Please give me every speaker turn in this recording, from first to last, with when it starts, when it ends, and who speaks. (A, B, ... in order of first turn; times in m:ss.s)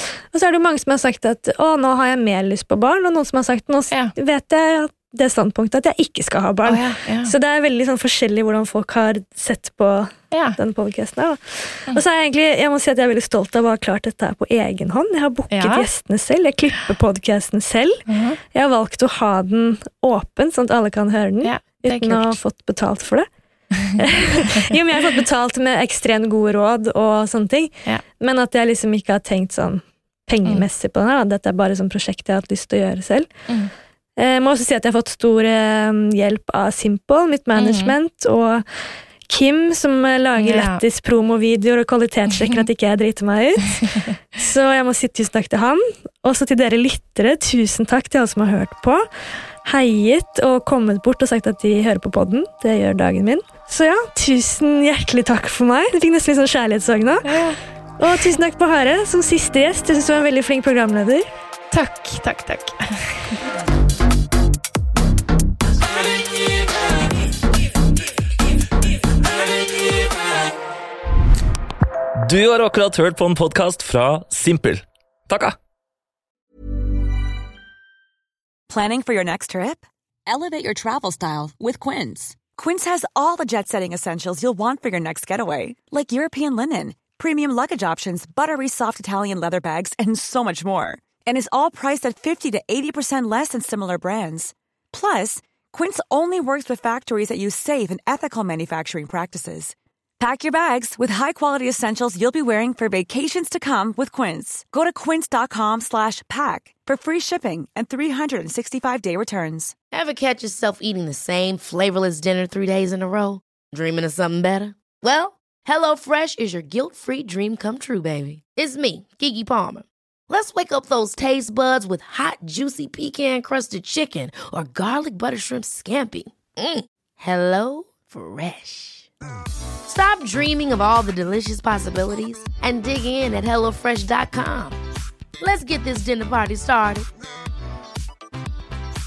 0:00.3-0:23.3 A
0:06.6-0:07.3 B
0:10.3-0:10.6 B
0:15.5-0:15.8 B
0:18.1-0:18.4 B
0:21.4-0:22.4 B
0:24.0-0:33.3 A
0:34.2-0:38.6 A
0:37.6-0:37.9 B
0:39.3-0:49.0 A
0:40.4-0:40.8 B
0:49.6-0:57.3 A
0:57.3-0:57.6 B
0:58.0-1:01.3 A
1:01.7-1:03.3 B
1:12.3-1:15.6 C
1:18.7-1:49.7 D
1:49.9-2:09.1 E
2:09.9-2:14.8 E
2:15.4-2:17.1 E